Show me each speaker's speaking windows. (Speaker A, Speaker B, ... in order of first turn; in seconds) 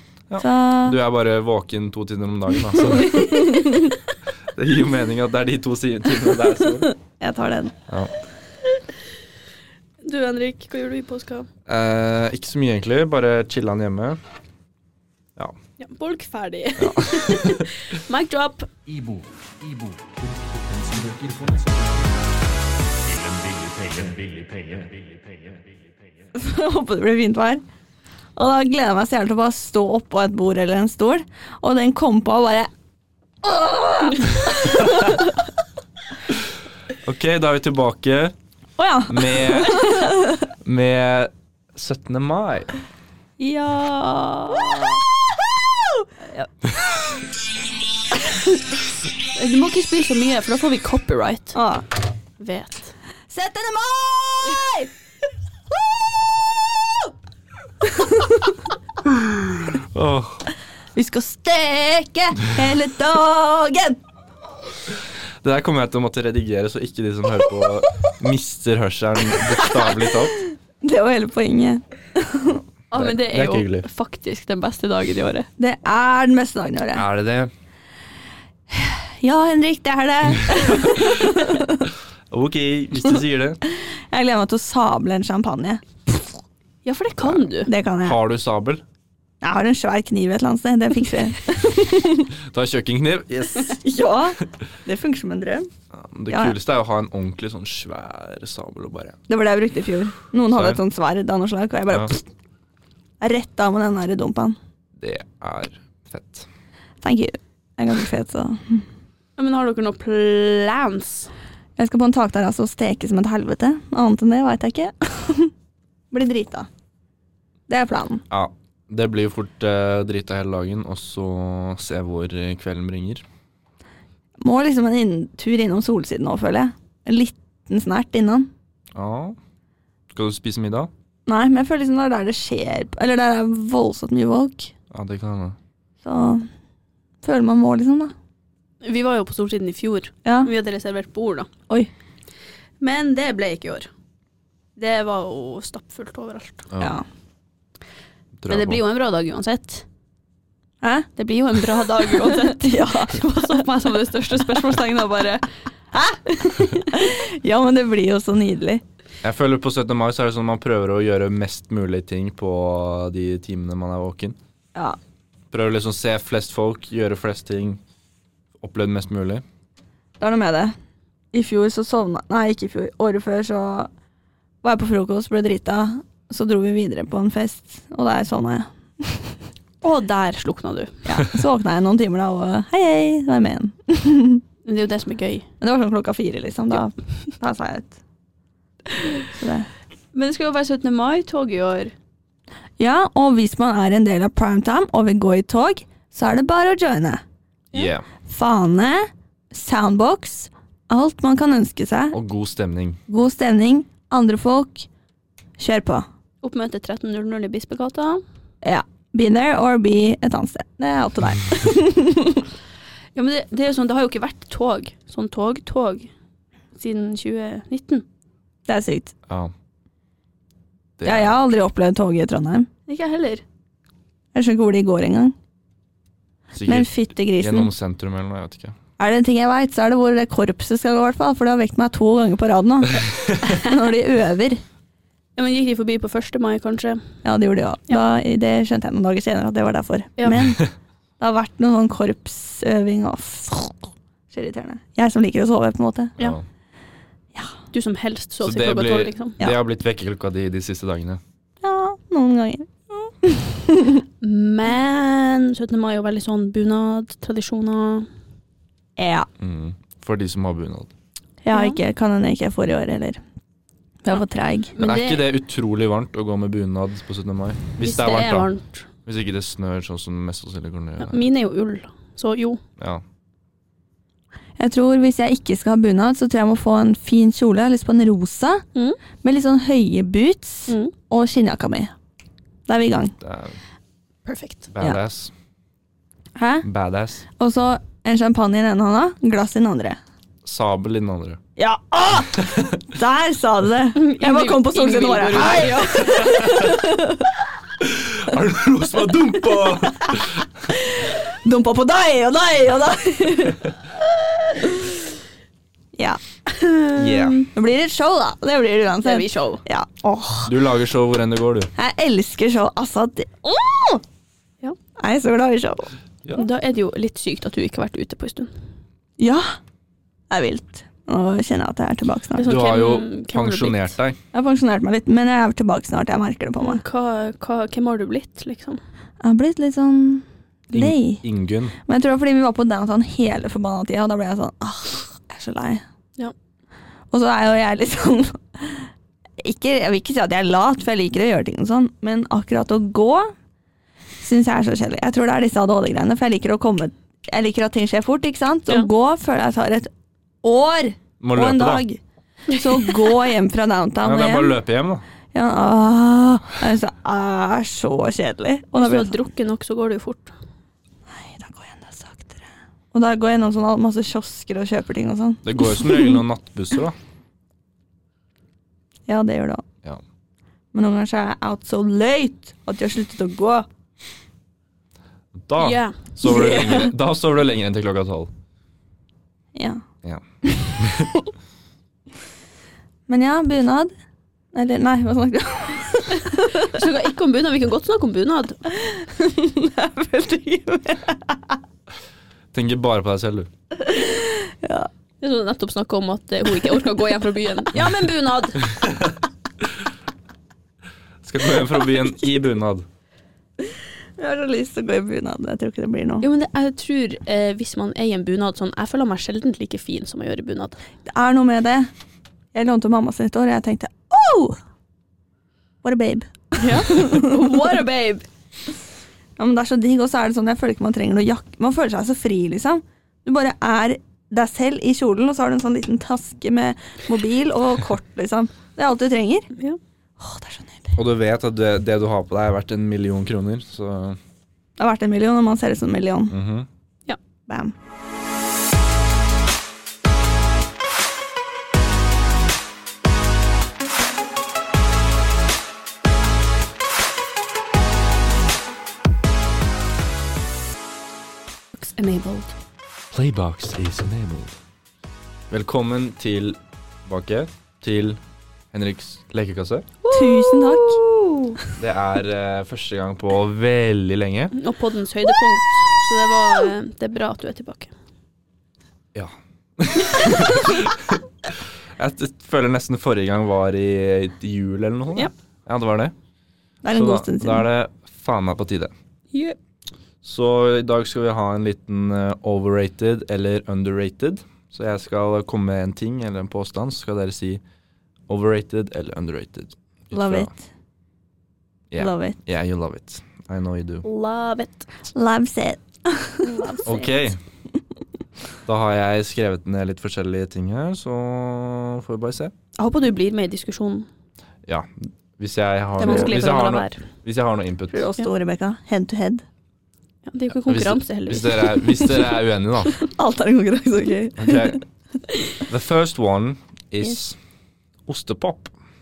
Speaker A: 0.3-3.7, 4.5-6.9, 11.7-14.2, 16.8-17.6, 37.0-38.3, 39.1-42.7, 59.1-60.4, 65.4-70.4, 72.9-73.8, 76.9-77.5, 80.9-81.3, 82.3-83.6, 88.0-88.8, 92.4-93.8, 95.9-99.2, 100.5-100.8, 105.0-106.5, 118.3-123.2, 128.9-129.4, 130.1-130.9, 134.9-135.6, 146.7-147.0, 148.4-148.8, 159.2-164.3, 165.5-167.8, 168.6-169.4, 197.7-198.1, 202.1-203.0, 221.0-221.4, 226.5-228.8, 248.4-251.2, 259.4-260.9, 264.8-268.5, 269.0-271.2, 283.2-283.6, 284.7-285.3, 286.6-287.2, 290.4-291.4, 296.1-296.7, 297.8-300.4, 306.9-307.5, 310.4-311.7, 322.4-324.2, 330.7-331.7, 351.2-351.8, 354.0-355.0, 365.4-366.9, 375.4-378.3, 380.0-381.1, 392.5-393.5, 401.2-402.8, 430.9-434.2, 436.3-436.7, 453.1-454.6, 455.5-458.2, 458.7-459.9, 461.8-464.5, 469.1-476.1, 476.9-478.9, 480.2-487.6, 488.3-490.5, 491.9-494.0, 496.8-497.4, 498.6-502.5, 504.6-508.0, 510.6-513.0, 514.4-514.8, 515.6-517.4, 518.1-518.7
Speaker B: 0.4-1.0, 3.1-3.7, 7.0-7.7, 26.3-27.6, 28.4-32.7, 33.4-35.4, 38.8-40.5, 44.7-46.1, 51.5-51.9, 53.3-54.9, 55.7-57.1, 57.8-58.6, 60.9-64.0, 69.6-69.9, 70.8-72.6, 75.6-77.0, 78.7-81.8, 83.7-86.2, 87.7-88.2, 89.4-92.3, 93.8-95.7, 96.3-96.5, 99.3-102.2, 103.2-104.6, 107.0-108.8, 111.8-115.5, 116.1-116.7, 117.7-118.2, 124.4-128.5, 131.2-134.7, 136.0-136.4, 137.2-138.1, 140.2-140.5, 146.8-147.0, 150.8-151.1, 152.1-153.7, 155.9-158.8, 170.2-170.7, 171.3-173.9, 174.6-179.4, 181.0-184.4, 185.6-188.0, 189.2-189.7, 192.8-197.2, 198.2-202.2, 203.1-204.9, 205.6-206.1, 208.6-212.5, 218.7-219.1, 221.0-222.7, 224.3-225.3, 226.6-227.7, 229.0-234.6, 237.2-240.7, 241.2-246.1, 251.6-254.0, 259.0-259.3, 261.4-263.2, 264.0-264.7, 274.6-278.6, 279.2-281.9, 282.7-283.1, 286.3-286.6, 287.4-290.0, 291.6-297.5, 299.5-300.2, 300.7-303.7, 304.6-305.0, 305.9-306.2, 307.5-310.5, 311.8-314.0, 315.0-315.9, 319.2-319.6, 320.3-322.5, 324.3-326.8, 329.2-331.2, 331.8-335.8, 337.1-343.3, 344.2-349.9, 350.4-354.6, 355.3-359.1, 361.1-366.2, 369.1-369.6, 370.7-373.7, 376.2-376.9, 379.5-379.8, 380.4-381.2, 383.1-383.9, 384.5-386.7, 388.7-391.6, 393.8-394.9, 403.6-406.2, 411.1-411.9, 412.5-414.6, 415.8-417.5, 419.4-429.5, 430.2-431.0, 434.8-436.3, 437.5-437.7, 460.1-461.0, 476.8-477.7, 490.1-490.6, 492.0-492.4, 495.1-496.9, 506.0-506.4, 507.9-509.4, 513.0-514.8
Speaker C: 10.0-11.5, 15.8-18.7, 43.4-45.0, 49.3-51.6, 52.4-52.9, 72.9-75.5, 86.8-87.7, 109.4-111.3, 138.8-141.5, 142.8-143.9, 144.8-146.7, 148.5-149.8, 151.2-155.4, 179.8-181.1, 184.6-185.4, 190.1-191.9, 206.4-208.2, 213.1-216.1, 216.7-218.0, 222.9-223.4, 235.3-237.0, 247.7-249.4, 254.2-258.1, 261.5-261.8, 264.7-265.2, 267.8-268.9, 271.0-272.6, 280.7-280.9, 284.2-284.7, 293.9-296.2, 306.6-307.4, 309.0-309.6, 316.3-318.5, 322.4-323.9, 326.6-328.8, 358.7-360.3, 375.6-376.6, 386.3-388.6, 395.2-398.6, 406.2-410.8, 416.6-418.2, 451.7-452.6, 460.0-461.6, 464.5-467.9, 479.3-479.6, 494.0-494.9, 496.4-497.3, 502.8-504.1, 506.0-507.0, 510.2-512.2
Speaker D: 18.9-22.4, 23.0-25.8